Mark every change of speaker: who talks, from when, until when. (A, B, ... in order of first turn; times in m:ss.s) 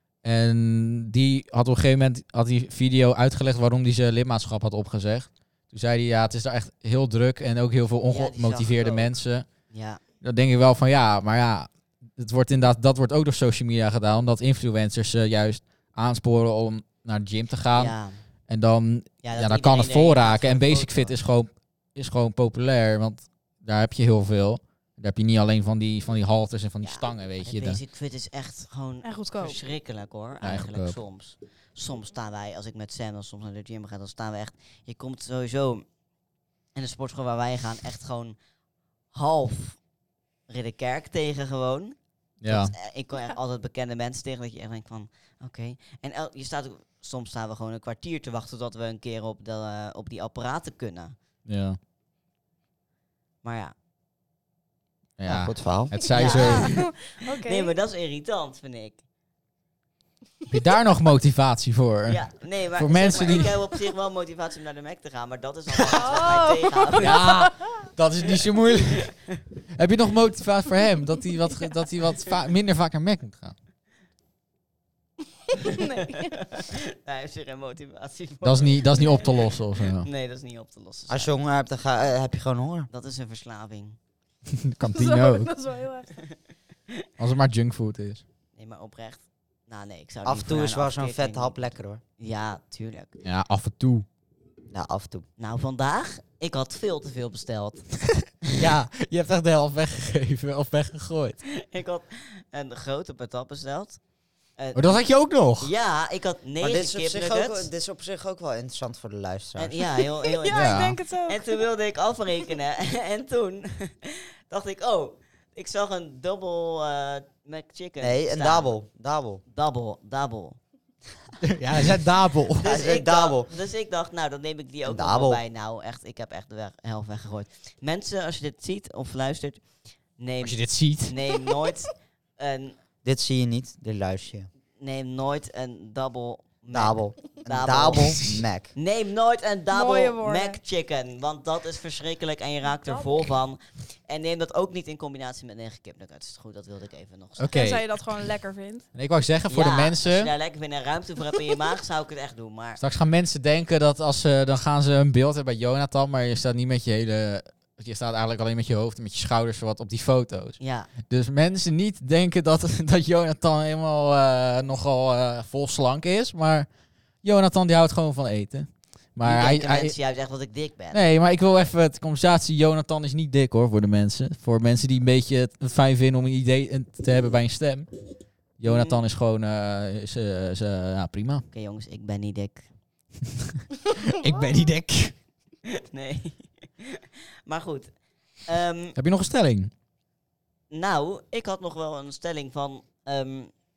0:00.2-0:09.5 A
0:08.1-0:09.1 B
0:09.7-0:10.0 B
0:10.2-0:18.0 A
0:17.7-0:18.2 B
0:18.5-0:27.8 A
0:19.2-0:21.2 B
0:26.8-0:35.8 B
0:29.0-0:29.6 C
0:30.4-0:31.0 A
0:36.8-0:38.4 B
0:39.1-0:39.8 B
0:40.5-0:42.0 B
0:42.4-0:42.7 A
0:42.5-0:51.2 B
0:51.5-0:51.8 A
0:53.4-0:53.7 B
0:55.2-0:56.7 A
0:55.3-0:56.1 D
0:56.0-0:57.7 C
0:56.1-0:59.0 B
1:00.5-1:03.5 A
1:02.1-1:07.4 B
1:05.8-1:07.7 C
1:07.0-1:09.2 A
1:09.7-1:13.6 A
1:15.6-1:16.4 C
1:16.5-1:21.3 B
1:18.4-1:20.1 A
1:21.1-1:22.9 D
1:22.9-1:24.0 B
1:24.6-1:25.5 A
1:24.9-1:26.2 C
1:27.2-1:28.2 A
1:28.6-1:33.2 B
1:30.2-1:32.0 D
1:33.2-1:34.1 A
1:34.7-1:35.2 D
1:35.4-1:38.4 B
1:38.6-1:41.4 A
1:41.6-1:44.0 B
1:44.6-1:47.7 B
1:44.8-1:45.7 A
1:46.6-1:49.8 D
1:49.6-1:58.8 B
1:49.8-1:51.6 C
1:50.5-1:51.0 A
1:58.0-1:59.4 D
1:59.5-2:00.6 B
2:01.4-2:02.6 A
2:02.6-2:12.8 B
2:02.6-2:03.5 D
2:04.9-2:05.4 D
2:10.4-2:11.1 A
2:13.0-2:14.5 D
2:14.8-2:27.6 B
2:16.7-2:18.7 D
2:19.7-2:20.6 C
2:22.6-2:23.3 C
2:27.4-2:27.9 A
2:27.5-2:28.9 C
2:29.0-2:30.3 A
2:29.5-2:32.8 B
2:32.8-2:46.7 A
2:40.6-2:40.9 B
2:47.2-2:49.9 A
2:49.2-2:51.0 B
2:50.9-2:57.9 A
2:58.6-3:01.5 A
2:58.6-2:59.0 B
3:01.5-3:02.7 B
3:04.1-3:05.2 A
3:04.2-3:04.7 C
3:05.9-3:09.0 B
3:09.0-3:09.7 A
3:10.7-3:13.5 B